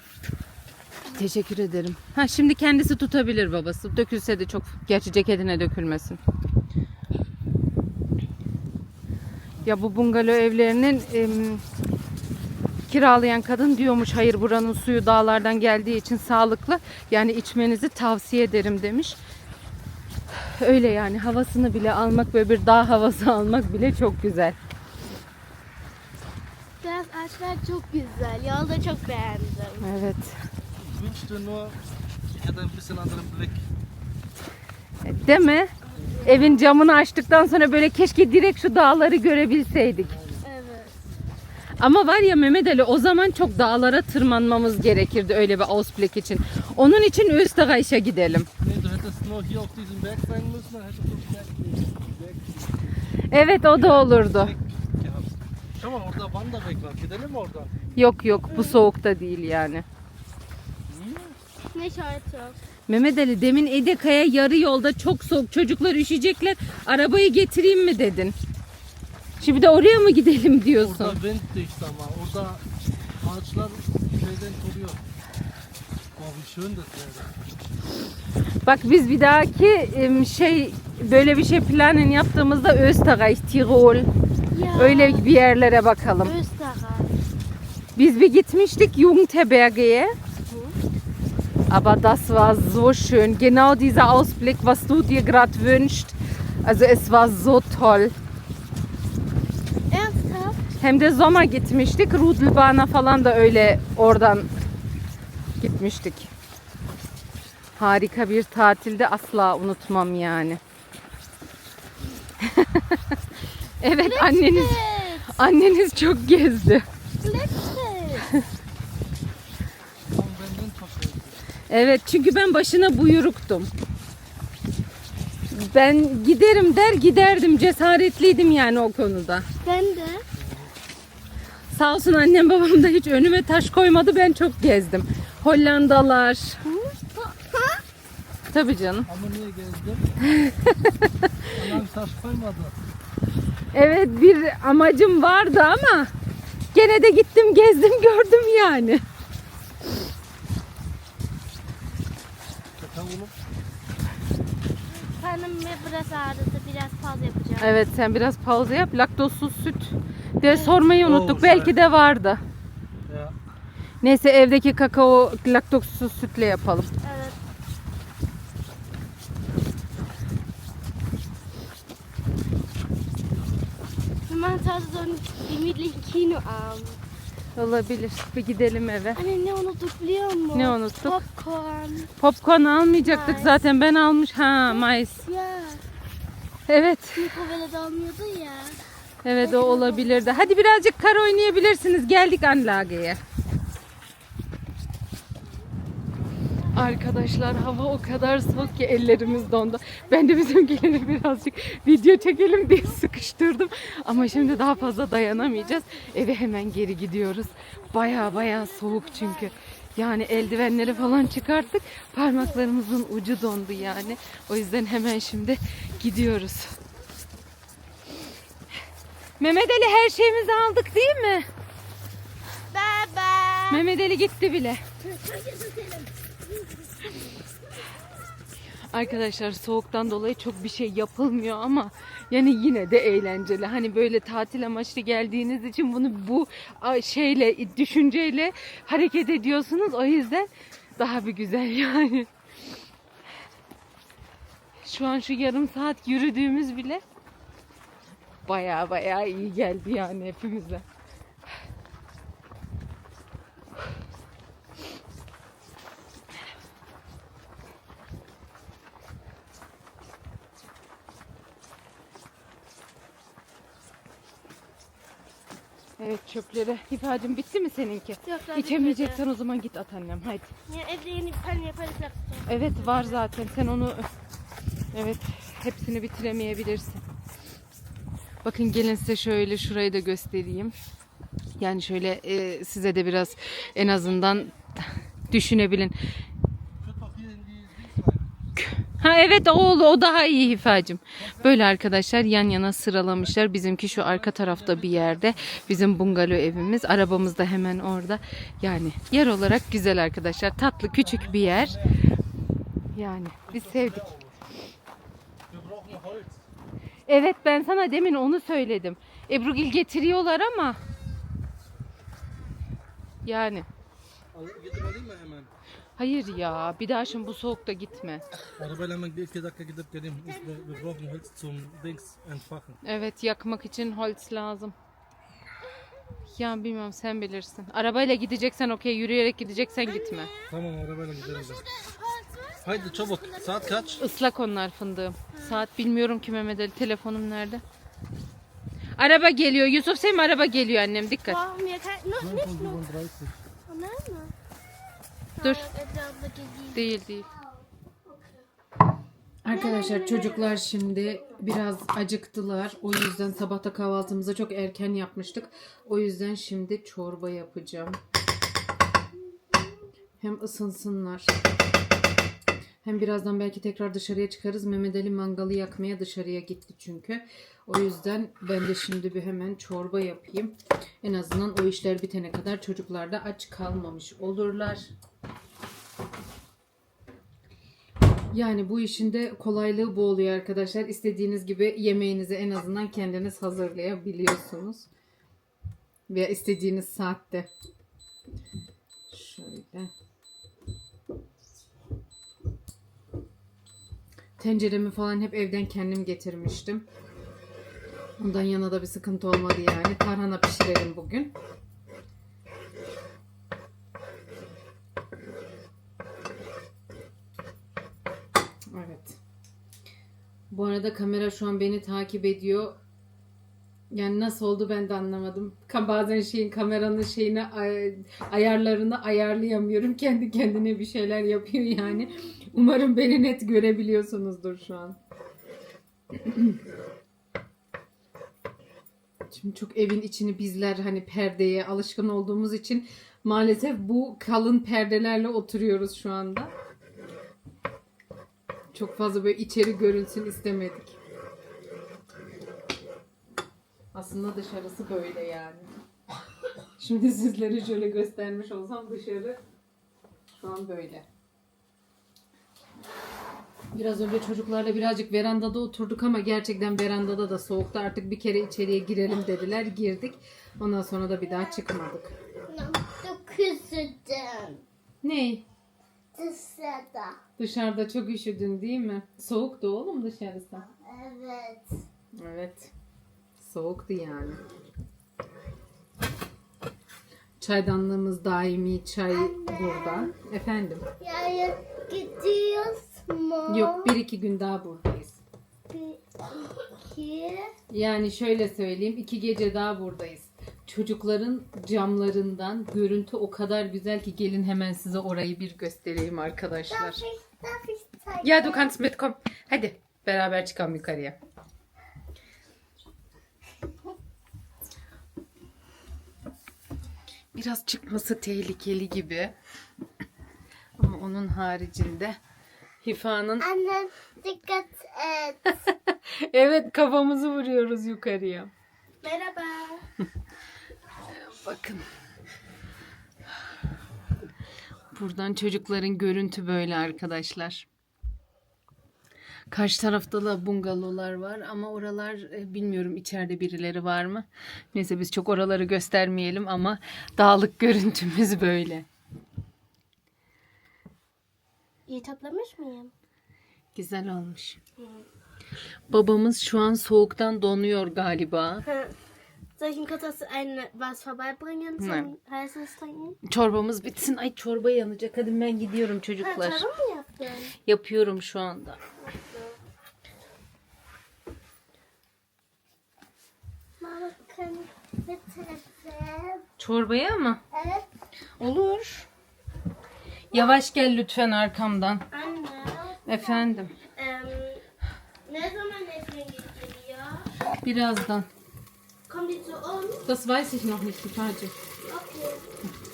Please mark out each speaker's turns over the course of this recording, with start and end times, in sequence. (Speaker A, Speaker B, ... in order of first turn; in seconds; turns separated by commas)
Speaker A: 1.1-6.2, Speaker A: 9.6-11.6, Speaker A: 12.9-19.2, Speaker A: 20.3-24.6, Speaker B: 26.8-29.9, Speaker A: 29.8-30.4, Speaker C: 30.8-31.8, Speaker C: 32.3-33.6, Speaker A: 35.0-35.7, Speaker B: 36.0-36.6, Speaker A: 36.2-40.1, Speaker C: 40.0-40.4, Speaker B: 40.4-41.0, Speaker A: 41.8-48.5, Speaker C: 48.6-53.0, Speaker A: 53.3-54.5, Speaker C: 53.6-57.9, Speaker A: 58.0-59.8, Speaker B: 58.5-58.8, Speaker C: 60.9-61.4, Speaker B: 61.7-62.6, Speaker A: 62.9-68.3, Speaker A: 69.4-71.2, Speaker C: 70.8-72.6, Speaker C: 73.2-75.0, Speaker C: 76.2-77.3, Speaker A: 78.6-84.1, Speaker B: 84.5-85.3, Speaker A: 84.8-86.3, Speaker B: 86.2-87.2, Speaker A: 88.0-90.1, Speaker B: 90.5-90.8, Speaker A: 91.7-98.1, Speaker B: 99.9-100.6, Speaker A: 100.8-104.5, Speaker A: 105.6-106.3, Speaker A: 107.8-110.6, Speaker A: 112.4-113.2, Speaker A: 113.8-114.8, Speaker B: 114.0-115.3, Speaker A: 115.3-116.8, Speaker B: 117.2-118.3, Speaker C: 120.1-121.4, Speaker A: 121.7-123.7, Speaker A: 125.5-129.4, Speaker B: 129.6-130.2, Speaker C: 130.3-130.7, Speaker A: 131.7-136.6, Speaker B: 136.7-137.8, Speaker A: 138.5-139.1, Speaker C: 139.1-140.1, Speaker A: 140.2-141.5, Speaker C: 141.6-142.7, Speaker A: 143.7-146.1, Speaker A: 146.7-149.0, Speaker C: 152.8-153.3, Speaker B: 154.9-157.7, Speaker A: 157.6-162.4, Speaker B: 160.5-160.8, Speaker C: 161.0-161.8, Speaker C: 163.1-163.3, Speaker A: 164.0-166.9, Speaker B: 167.0-167.3, Speaker B: 174.3-177.0, Speaker A: 177.5-179.2, Speaker B: 179.2-182.1, Speaker A: 180.5-181.2, Speaker A: 182.2-185.2, Speaker B: 183.0-183.6, Speaker B: 184.7-185.8, Speaker A: 186.7-187.4, Speaker B: 187.2-188.8, Speaker A: 189.2-193.2, Speaker B: 189.4-190.5, Speaker A: 196.7-216.8, Speaker B: 204.2-205.3, Speaker B: 207.9-209.5, Speaker B: 210.4-211.4, Speaker A: 219.4-221.5, Speaker B: 222.7-223.8, Speaker A: 223.7-224.8, Speaker B: 225.0-226.1, Speaker A: 228.9-242.3, Speaker A: 244.8-247.0, Speaker A: 248.4-250.8, Speaker A: 266.0-270.5, Speaker B: 268.2-269.2, Speaker B: 270.7-273.2, Speaker A: 272.5-274.1, Speaker A: 274.9-277.0, Speaker A: 278.4-280.7, Speaker A: 281.6-285.9, Speaker C: 286.7-288.3, Speaker A: 288.6-301.8, Speaker C: 293.9-295.9, Speaker C: 301.0-302.0, Speaker A: 302.9-304.1, Speaker C: 303.5-304.4, Speaker C: 305.5-306.4, Speaker A: 307.1-310.8, Speaker A: 313.2-313.7, Speaker C: 314.3-315.5, Speaker A: 316.0-318.2, Speaker C: 318.6-322.8, Speaker A: 322.8-324.7, Speaker A: 326.3-330.3, Speaker B: 329.8-330.4, Speaker C: 330.5-331.7, Speaker B: 331.4-333.9, Speaker C: 332.6-334.1, Speaker A: 334.0-337.6, Speaker B: 335.3-335.6, Speaker A: 339.0-341.4, Speaker B: 341.2-342.9, Speaker C: 342.2-343.4, Speaker B: 343.7-344.3, Speaker B: 345.4-347.2, Speaker A: 345.4-345.7, Speaker A: 346.7-347.3, Speaker A: 349.4-358.0, Speaker B: 349.5-351.3, Speaker A: 360.2-361.3, Speaker A: 362.8-374.9, Speaker A: 378.3-384.9, Speaker A: 386.1-387.5, Speaker A: 389.1-389.9, Speaker A: 394.4-396.9, Speaker A: 398.2-401.3, Speaker A: 408.7-409.2, Speaker A: 410.5-412.8, Speaker A: 413.9-425.0, Speaker A: 426.2-426.6, Speaker A: 429.3-436.5, Speaker A: 438.7-441.0, Speaker A: 443.9-445.7, Speaker A: 446.8-449.4, Speaker A: 450.4-451.0, Speaker A: 453.7-462.1, Speaker B: 462.5-464.6, Speaker A: 465.0-465.4, Speaker B: 466.1-467.2, Speaker A: 467.4-470.6, Speaker B: 470.6-471.8, Speaker A: 472.2-472.7, Speaker A: 473.4-474.4, Speaker A: 477.4-480.9, Speaker B: 479.1-480.1, Speaker B: 481.0-483.9, Speaker A: 483.5-485.2, Speaker B: 485.7-487.5, Speaker A: 487.7-497.0, Speaker B: 496.7-498.7, Speaker A: 498.2-501.2, Speaker A: 507.3-509.3, Speaker A: 510.8-512.2, Speaker A: 512.8-513.5, Speaker B: 513.4-515.5, Speaker A: 515.6-518.5, Speaker B: 519.0-519.8, Speaker A: 521.1-521.8, Speaker A: 524.9-527.7, Speaker A: 529.5-538.9, Speaker B: 541.9-542.9, Speaker A: 543.7-544.6, Speaker A: 545.9-548.6, Speaker B: 548.6-548.9, Speaker B: 549.6-553.1, Speaker A: 551.8-552.1, Speaker A: 553.2-556.6, Speaker B: 556.2-557.5, Speaker A: 557.6-558.8, Speaker B: 559.0-559.6, Speaker B: 563.8-566.4, Speaker A: 566.6-567.4, Speaker B: 567.5-567.9, Speaker A: 568.4-569.1, Speaker A: 570.3-572.0, Speaker B: 572.1-574.6, Speaker A: 573.0-573.7, Speaker B: 575.3-577.3, Speaker A: 577.6-578.3, Speaker B: 579.1-580.0, Speaker A: 580.0-581.5, Speaker B: 581.9-582.4